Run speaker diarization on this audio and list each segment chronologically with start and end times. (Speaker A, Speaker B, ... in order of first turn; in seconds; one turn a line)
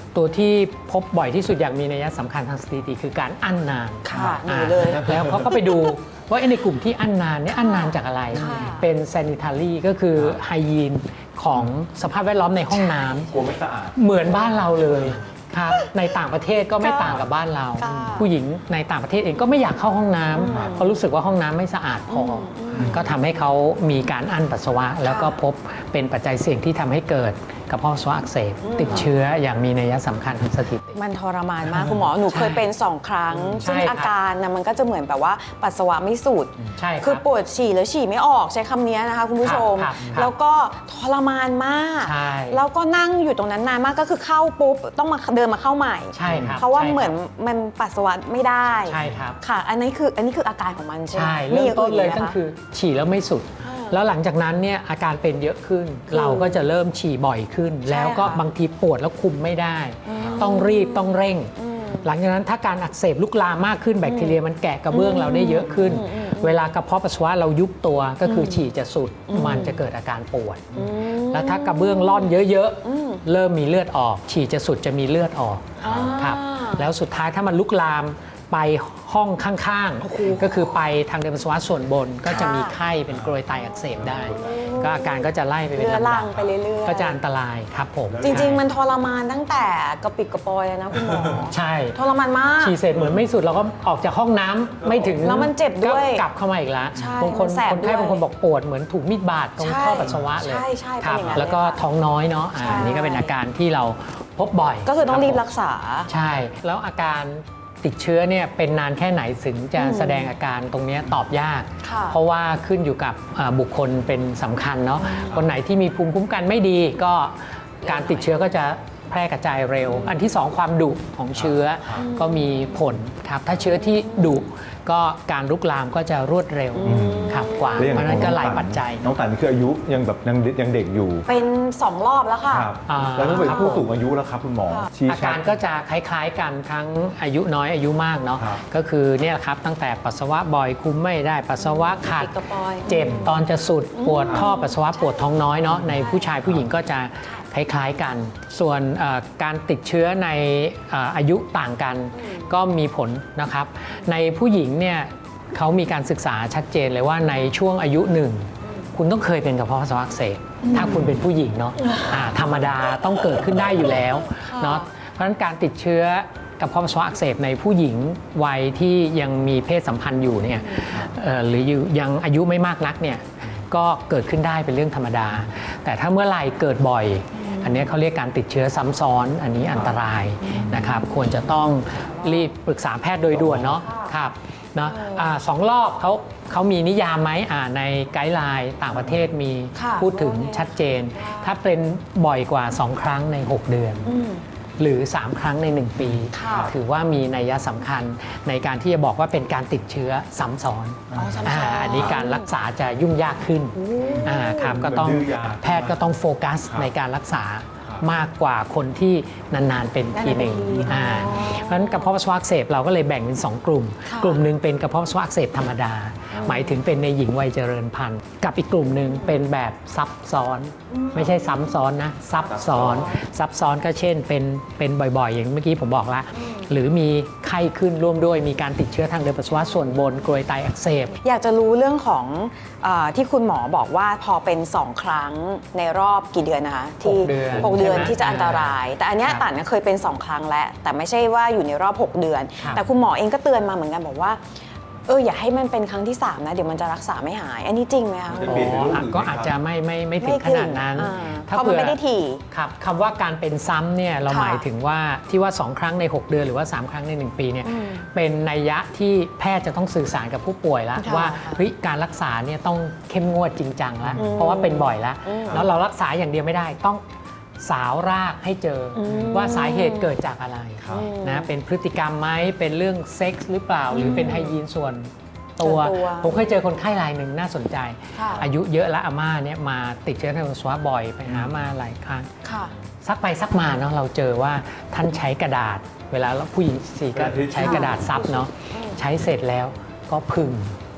Speaker A: 0.1-13.4
Speaker B: 4.0-5.9
Speaker C: 4.1-5.5
Speaker B: 7.5-8.9
Speaker C: 8.4-8.7
Speaker B: 12.7-13.4
Speaker C: 13.3-14.0
Speaker A: 13.9-31.0
Speaker C: 14.7-15.2
Speaker B: 16.8-17.2
Speaker B: 17.8-18.3
Speaker C: 17.8-18.2
Speaker B: 20.3-20.9
Speaker C: 20.5-20.8
Speaker B: 22.1-23.1
Speaker C: 22.7-23.1
Speaker B: 25.1-25.4
Speaker B: 28.6-29.1
Speaker B: 30.9-52.4
Speaker A: 31.9-32.7
Speaker A: 33.3-34.1
Speaker A: 36.8-37.2
Speaker A: 39.4-40.3
Speaker A: 42.0-42.6
Speaker A: 46.1-47.1
Speaker C: 46.2-46.6
Speaker A: 48.9-49.4
Speaker C: 49.0-49.2
Speaker A: 51.1-88.6
Speaker B: 53.6-54.0
Speaker B: 56.1-56.6
Speaker B: 57.9-58.4
Speaker B: 60.1-62.1
Speaker C: 60.2-60.4
Speaker B: 64.0-64.4
Speaker B: 64.9-66.6
Speaker C: 65.7-66.0
Speaker B: 68.2-68.6
Speaker B: 69.3-69.8
Speaker B: 70.8-73.2
Speaker C: 75.8-76.2
Speaker B: 75.8-76.9
Speaker B: 80.0-80.8
Speaker B: 82.3-82.8
Speaker C: 83.1-83.4
Speaker B: 83.5-87.2
Speaker C: 84.0-84.8
Speaker C: 88.1-88.6
Speaker B: 88.2-92.8
Speaker C: 90.9-91.4
Speaker A: 91.5-92.0
Speaker A: 92.6-105.4
Speaker C: 92.9-93.3
Speaker C: 94.8-95.4
Speaker B: 95.2-96.2
Speaker B: 96.9-98.2
Speaker B: 99.6-101.8
Speaker C: 100.0-100.3
Speaker B: 102.6-103.3
Speaker B: 104.9-106.1
Speaker A: 106.1-129.1
Speaker B: 109.8-110.3
Speaker B: 111.8-112.2
Speaker B: 115.0-115.4
Speaker B: 117.8-118.2
Speaker B: 119.9-120.2
Speaker C: 121.3-122.0
Speaker B: 122.0-122.8
Speaker B: 123.7-124.4
Speaker B: 126.8-128.3
Speaker C: 126.8-131.3
Speaker B: 131.3-132.7
Speaker C: 132.5-135.5
Speaker A: 132.9-133.8
Speaker B: 133.3-133.8
Speaker A: 135.1-194.2
Speaker B: 141.6-143.4
Speaker B: 143.9-146.4
Speaker B: 152.1-152.5
Speaker B: 160.6-161.1
Speaker B: 161.8-162.2
Speaker C: 162.3-162.7
Speaker B: 164.3-164.9
Speaker B: 170.6-171.0
Speaker B: 177.4-177.8
Speaker C: 179.7-180.0
Speaker B: 180.4-181.4
Speaker B: 182.0-182.4
Speaker C: 183.3-183.8
Speaker B: 184.9-185.3
Speaker C: 188.9-189.2
Speaker B: 189.8-191.5
Speaker B: 194.1-194.4
Speaker A: 194.8-231.1
Speaker C: 196.0-196.8
Speaker B: 196.3-196.7
Speaker C: 201.1-202.2
Speaker B: 201.1-202.5
Speaker B: 203.8-204.7
Speaker C: 204.1-206.0
Speaker B: 210.1-212.1
Speaker B: 214.1-214.4
Speaker B: 216.3-216.8
Speaker B: 219.1-219.3
Speaker B: 220.9-221.7
Speaker C: 222.4-223.1
Speaker B: 222.7-223.2
Speaker B: 226.3-226.7
Speaker B: 231.2-244.4
Speaker A: 237.0-238.8
Speaker C: 237.5-238.5
Speaker B: 245.1-248.7
Speaker C: 248.3-249.5
Speaker A: 248.4-252.0
Speaker B: 250.2-252.4
Speaker A: 252.5-267.0
Speaker B: 254.3-254.7
Speaker B: 257.6-258.0
Speaker B: 261.0-261.6
Speaker B: 264.2-265.7
Speaker A: 267.6-282.3
Speaker B: 268.9-270.1
Speaker C: 269.1-269.4
Speaker C: 270.8-271.1
Speaker B: 270.9-271.5
Speaker B: 273.9-274.5
Speaker B: 275.6-276.4
Speaker B: 278.1-278.5
Speaker C: 281.3-281.5
Speaker B: 282.4-282.8
Speaker A: 283.0-290.8
Speaker C: 287.1-288.1
Speaker B: 287.6-289.0